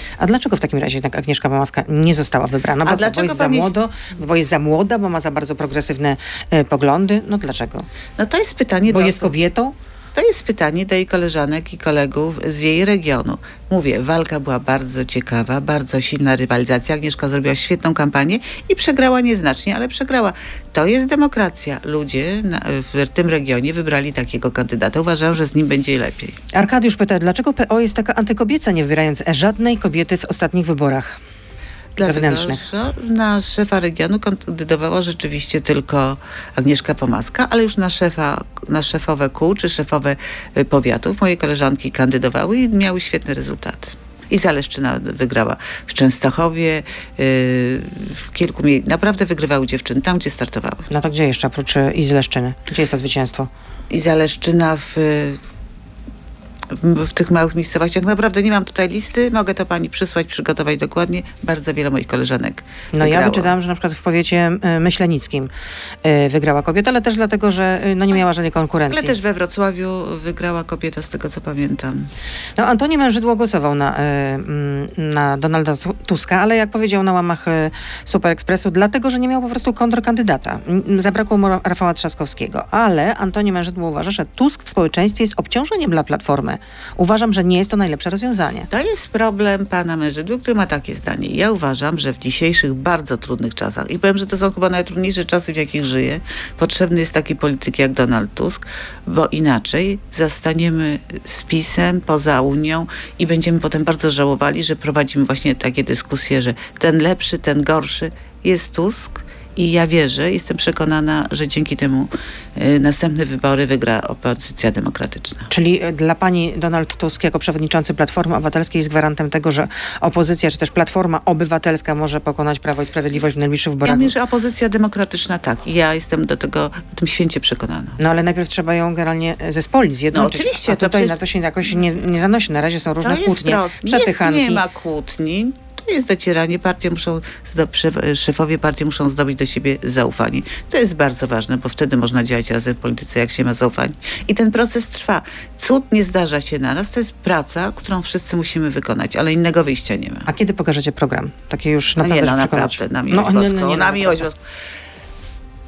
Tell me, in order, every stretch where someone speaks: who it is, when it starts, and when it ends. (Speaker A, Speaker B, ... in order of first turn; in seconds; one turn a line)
Speaker A: 0.2-7.9
Speaker B: 2.9-3.7
Speaker B: 8.2-9.3
Speaker A: 8.9-9.7
Speaker B: 10.2-26.4
Speaker A: 26.5-31.2
Speaker B: 32.0-50.9
Speaker A: 32.0-32.6
Speaker A: 50.9-53.5
Speaker B: 53.9-55.4
Speaker B: 56.7-63.5
Speaker A: 62.9-65.5
Speaker A: 66.0-69.2
Speaker B: 68.9-72.1
Speaker A: 72.6-88.7
Speaker B: 88.7-115.5
Speaker A: 115.5-124.1
Speaker B: 123.8-128.0
Speaker A: 128.0-134.6
Speaker B: 130.1-131.2
Speaker B: 133.0-150.3
Speaker A: 150.3-154.3
Speaker B: 152.0-154.4